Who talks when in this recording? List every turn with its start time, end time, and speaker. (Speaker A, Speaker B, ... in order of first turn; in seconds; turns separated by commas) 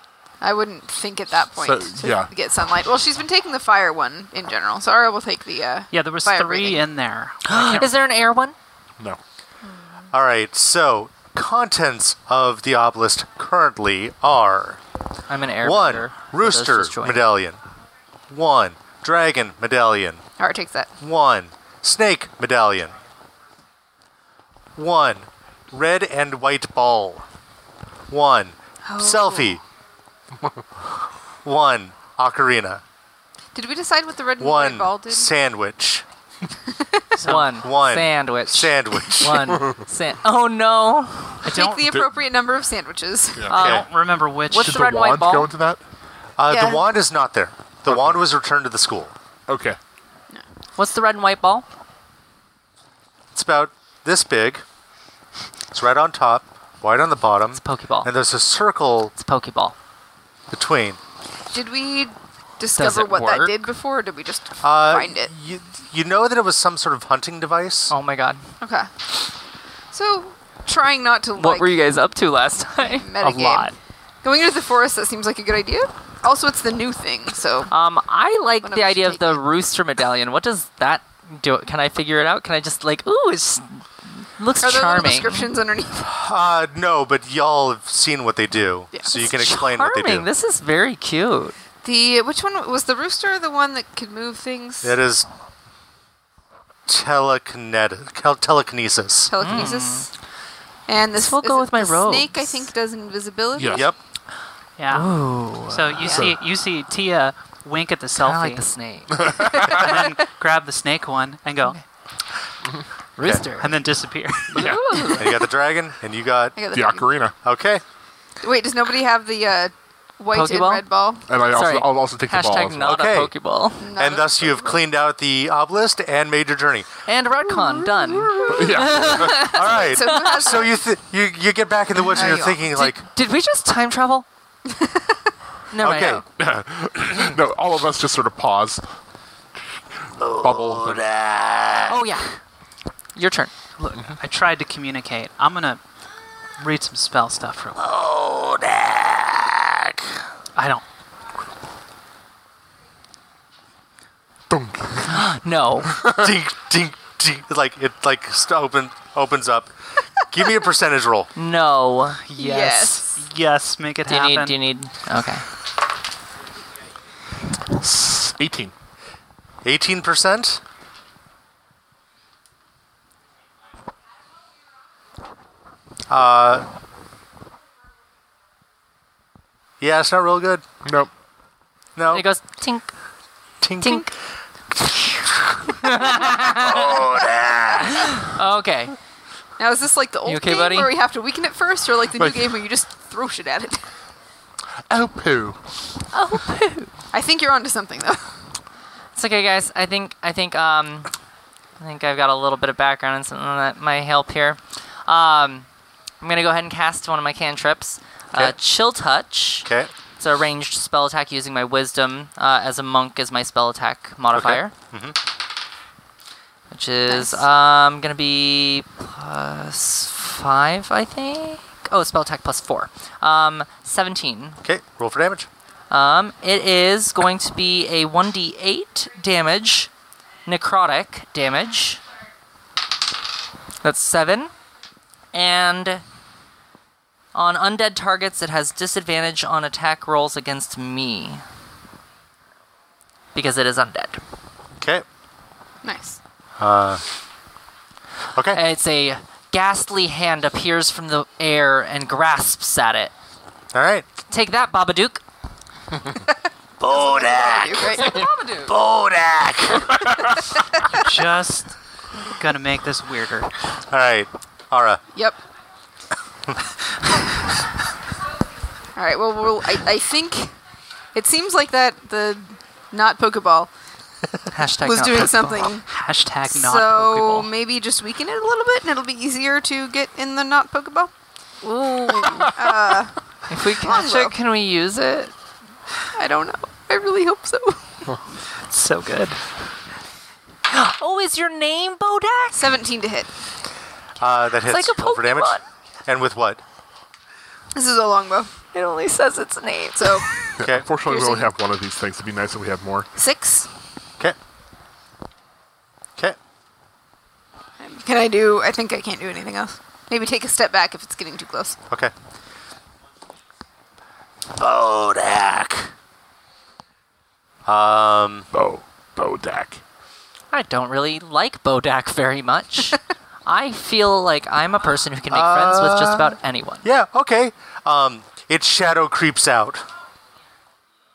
Speaker A: 0.4-6.8, Speaker B: 1.6-2.3, Speaker C: 5.9-7.9, Speaker D: 7.5-8.5, Speaker E: 10.1-14.8, Speaker D: 15.3-17.2, Speaker E: 15.6-17.6, Speaker E: 18.3-20.2, Speaker A: 20.4-20.9, Speaker E: 21.0-22.9, Speaker E: 24.8-27.2, Speaker E: 28.1-29.6, Speaker A: 28.8-29.6, Speaker E: 31.4-32.8, Speaker A: 33.5-35.3, Speaker E: 34.4-36.0, Speaker A: 36.8-37.0, Speaker C: 37.2-37.6, Speaker D: 37.2-41.4, Speaker E: 37.5-39.6, Speaker C: 41.4-42.0, Speaker A: 41.4-43.5, Speaker B: 41.9-42.1, Speaker B: 43.3-43.7, Speaker D: 43.5-43.9, Speaker C: 43.5-44.8, Speaker E: 43.5-43.9, Speaker D: 44.5-45.5, Speaker B: 44.5-45.8, Speaker E: 46.4-49.1, Speaker A: 46.5-46.9, Speaker B: 47.9-48.2, Speaker B: 49.5-49.8, Speaker D: 50.8-51.6, Speaker E: 53.3-54.6, Speaker E: 55.7-59.1, Speaker D: 57.5-58.1, Speaker D: 59.2-59.7, Speaker E: 60.5-61.0, Speaker A: 61.5-65.3, Speaker D: 62.8-63.6, Speaker E: 64.6-67.9, Speaker D: 67.9-68.4, Speaker A: 68.6-68.9, Speaker A: 69.9-71.8, Speaker D: 71.4-73.1, Speaker A: 72.8-77.7, Speaker C: 73.2-73.7, Speaker D: 77.7-85.5, Speaker A: 78.6-79.4, Speaker A: 84.6-86.0, Speaker E: 86.0-90.3, Speaker D: 89.1-91.5, Speaker A: 91.8-95.0, Speaker E: 94.8-95.2, Speaker E: 96.9-99.3, Speaker A: 99.3-100.1, Speaker D: 99.4-100.1, Speaker A: 100.9-103.9, Speaker D: 101.2-102.7, Speaker B: 103.5-103.9, Speaker C: 104.8-108.6, Speaker D: 104.9-106.2, Speaker A: 106.0-106.3, Speaker D: 108.2-109.3, Speaker B: 109.2-109.9, Speaker C: 109.5-111.8, Speaker D: 113.2-113.8, Speaker C: 113.6-114.8, Speaker D: 114.5-115.5, Speaker B: 114.5-114.8, Speaker E: 115.1-116.5, Speaker A: 116.5-117.1, Speaker B: 116.7-117.3, Speaker E: 117.4-117.8, Speaker A: 118.4-121.2, Speaker D: 120.3-120.8, Speaker B: 121.3-123.0, Speaker D: 121.5-123.9, Speaker E: 122.8-123.3, Speaker A: 123.8-124.8, Speaker E: 124.0-127.0, Speaker D: 127.1-130.4, Speaker A: 127.6-130.7, Speaker B: 128.4-129.5, Speaker E: 129.2-133.0, Speaker A: 132.1-132.6, Speaker D: 132.5-134.2, Speaker A: 134.7-135.2, Speaker D: 135.7-136.2, Speaker E: 135.8-136.2, Speaker B: 136.3-138.8, Speaker E: 140.2-142.0, Speaker B: 140.4-141.0, Speaker D: 141.9-142.4, Speaker D: 143.1-143.5, Speaker C: 143.8-145.8, Speaker C: 146.6-147.8, Speaker E: 147.8-150.1, Speaker C: 150.5-150.8, Speaker B: 154.5-155.3, Speaker D: 155.1-156.0, Speaker B: 155.8-156.3, Speaker E: 156.1-161.3, Speaker D: 161.3-162.2, Speaker C: 162.2-164.6, Speaker A: 162.3-163.2, Speaker D: 164.1-165.4, Speaker B: 167.7-168.7, Speaker E: 169.6-170.6, Speaker E: 176.1-176.7, Speaker E: 179.8-180.6, Speaker B: 180.8-181.1, Speaker E: 181.9-182.3, Speaker D: 182.1-182.9, Speaker E: 183.6-184.1, Speaker D: 183.8-184.1, Speaker E: 184.7-188.1, Speaker D: 185.8-187.1, Speaker D: 187.8-188.9, Speaker A: 189.6-193.8, Speaker D: 190.2-190.9, Speaker B: 192.2-192.6, Speaker B: 194.9-195.6, Speaker D: 196.1-196.9, Speaker A: 197.1-198.2, Speaker D: 199.1-201.1, Speaker D: 201.8-205.7, Speaker D: 206.2-209.7, Speaker E: 209.6-209.9, Speaker D: 210.2-214.7, Speaker E: 214.3-215.2, Speaker D: 216.7-224.6, Speaker A: 217.1-217.4, Speaker E: 224.6-225.5, Speaker D: 225.9-229.9, Speaker D: 230.4-232.0, Speaker D: 233.8-234.5, Speaker D: 235.3-236.0, Speaker D: 237.3-241.4, Speaker D: 243.3-244.2, Speaker E: 244.8-245.0, Speaker A: 245.8-246.2, Speaker E: 246.6-247.0, Speaker E: 248.3-248.6, Speaker D: 248.5-253.1, Speaker E: 253.7-254.1, Speaker D: 254.3-255.2, Speaker E: 256.8-260.1, Speaker A: 256.9-258.3, Speaker D: 257.9-258.7, Speaker C: 260.9-263.5, Speaker E: 263.9-265.0, Speaker A: 268.9-270.5, Speaker A: 271.1-273.7, Speaker D: 274.5-275.7, Speaker A: 274.8-275.9, Speaker C: 275.9-277.5, Speaker A: 276.4-281.1, Speaker D: 281.6-282.6, Speaker A: 282.0-284.3, Speaker D: 283.5-285.3, Speaker A: 286.1-288.1, Speaker C: 288.7-289.4, Speaker D: 290.7-292.8, Speaker A: 292.5-293.3, Speaker E: 294.2-296.6, Speaker D: 294.7-295.6, Speaker A: 297.7-298.6, Speaker D: 298.7-300.4, Speaker A: 299.9-301.5, Speaker B: 300.6-303.1, Speaker E: 300.6-300.9, Speaker A: 303.1-303.7, Speaker A: 307.8-311.8, Speaker E: 314.5-315.9, Speaker E: 317.6-318.5, Speaker B: 318.5-319.8, Speaker D: 320.5-326.9, Speaker E: 325.3-329.9